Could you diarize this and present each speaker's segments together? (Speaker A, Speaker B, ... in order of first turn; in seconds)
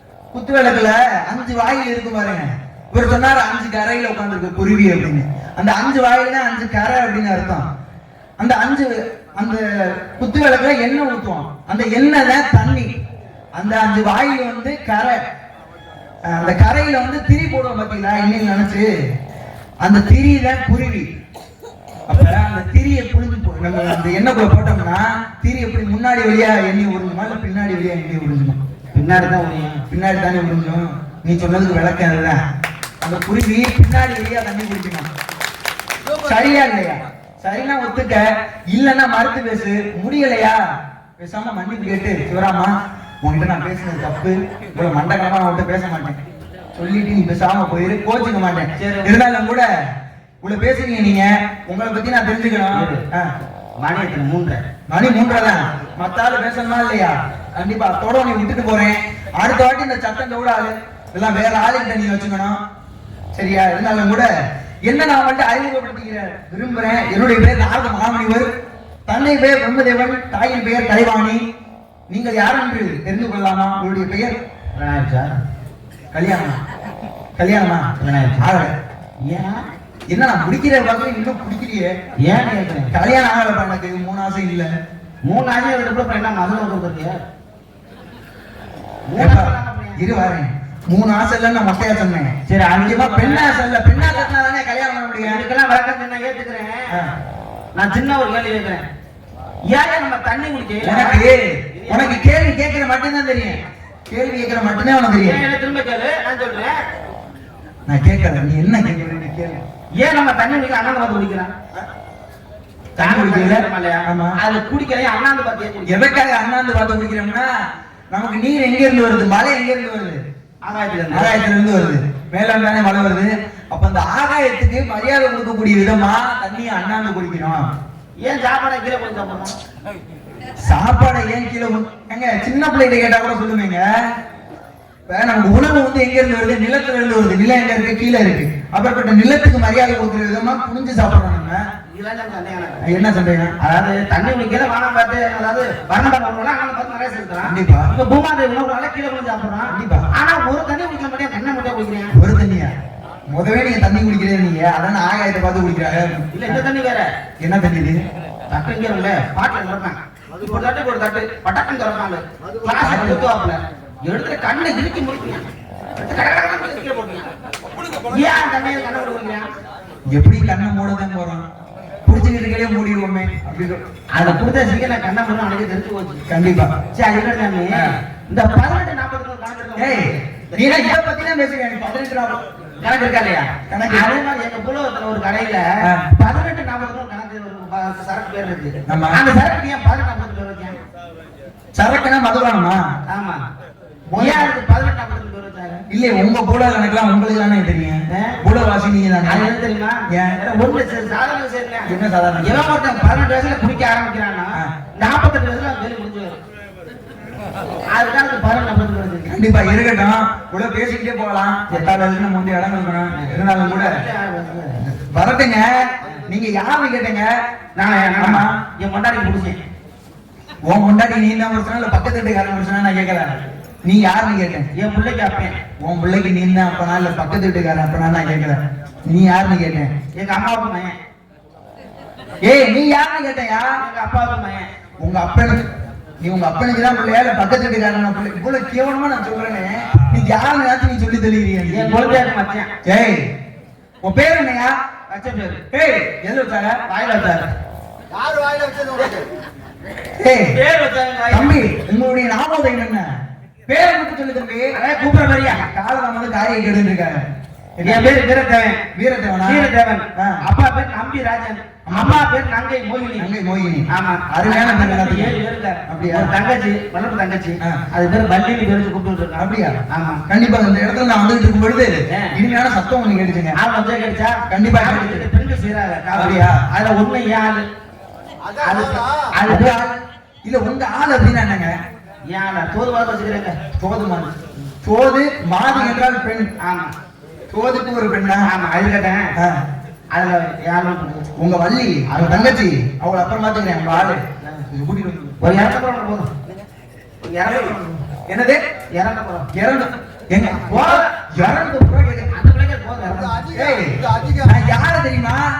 Speaker A: 0.3-7.7, 8.4-12.9, 13.6-15.2, 16.2-18.9, 19.8-21.1, 22.1-28.6, 29.9-32.4, 33.0-35.1, 36.2-40.6, 41.2-46.2, 46.8-49.7, 50.4-53.3, 54.9-62.6, 63.3-64.3, 64.8-68.5, 69.1-71.4, 72.1-74.4, 76.1-76.6, 77.4-78.7, 80.1-81.9, 82.9-84.7, 89.2-95.4, 100.8-105.5, 107.9-109.6, 113.0-114.4, 115.8-117.5, 118.1-120.2, 121.1-127.7, 130.6-133.9, 135.1-141.6, 142.8-143.5, 147.4-147.9, 149.7-150.1, 152.2-152.7, 153.3-156.6, 157.4-158.0, 162.8-163.3, 170.1-171.5, 172.0-173.8, 176.3-176.8, 179.8-182.4, 183.7-184.1, 185.8-186.1, 188.9-189.3, 191.8-192.9, 194.1-194.5, 195.9-199.5, 200.1-200.4, 201.9-202.8, 209.3-214.0, 214.8-217.3, 218.2-218.6, 220.7-224.7, 225.8-229.9, 232.4-233.8, 235.0-235.7, 236.2-242.2, 242.8-243.3, 244.0-244.8, 245.7-246.8, 250.2-250.6, 251.3-253.1, 253.7-254.8, 255.5-257.2, 257.8-258.1, 258.9-260.4, 261.9-262.3, 263.2-266.3, 269.4-273.6, 274.5-275.3, 276.1-276.6, 279.5-281.8, 283.8-284.3, 284.8-286.5, 287.5-288.5, 289.4-289.6, 291.4-295.5, 298.3-298.6, 299.5-302.3, 303.5-305.5
Speaker B: 28.9-29.9, 48.8-49.1, 52.7-53.0, 53.8-54.6, 74.8-75.4, 78.0-78.5, 79.2-79.6, 82.2-82.9, 85.2-87.2, 89.1-90.0, 92.5-94.1, 95.2-97.0, 97.8-98.8, 99.7-102.3, 105.2-106.8, 110.0-111.5, 113.0-116.0, 120.6-121.4, 128.2-129.6, 141.9-143.0, 143.6-152.1, 156.3-157.1, 158.5-167.3, 168.0-169.5, 174.1-176.2, 176.9-180.9, 182.8-190.8, 193.1-193.5, 194.2-195.8, 198.1-198.4, 199.2-201.9, 202.4-206.4, 207.9-209.3, 211.7-211.9, 213.1-214.8, 217.8-219.6, 224.7-225.6, 230.2-230.9, 233.8-234.7, 241.7-242.7, 245.1-245.6, 246.9-247.5, 250.5-251.6, 254.7-255.7, 257.8-258.8, 259.4-263.3, 263.9-270.2, 272.1-272.4, 273.5-277.7, 278.6-279.7, 282.3-283.6, 285.7-286.0, 286.6-286.9, 288.4-289.4, 290.1-291.3, 292.1-292.6, 295.4-296.3, 297.2-298.0, 298.9-299.5, 300.6-301.2, 302.3-303.5
Speaker C: 162.4-162.9, 248.1-249.3, 278.4-279.2, 303.0-304.6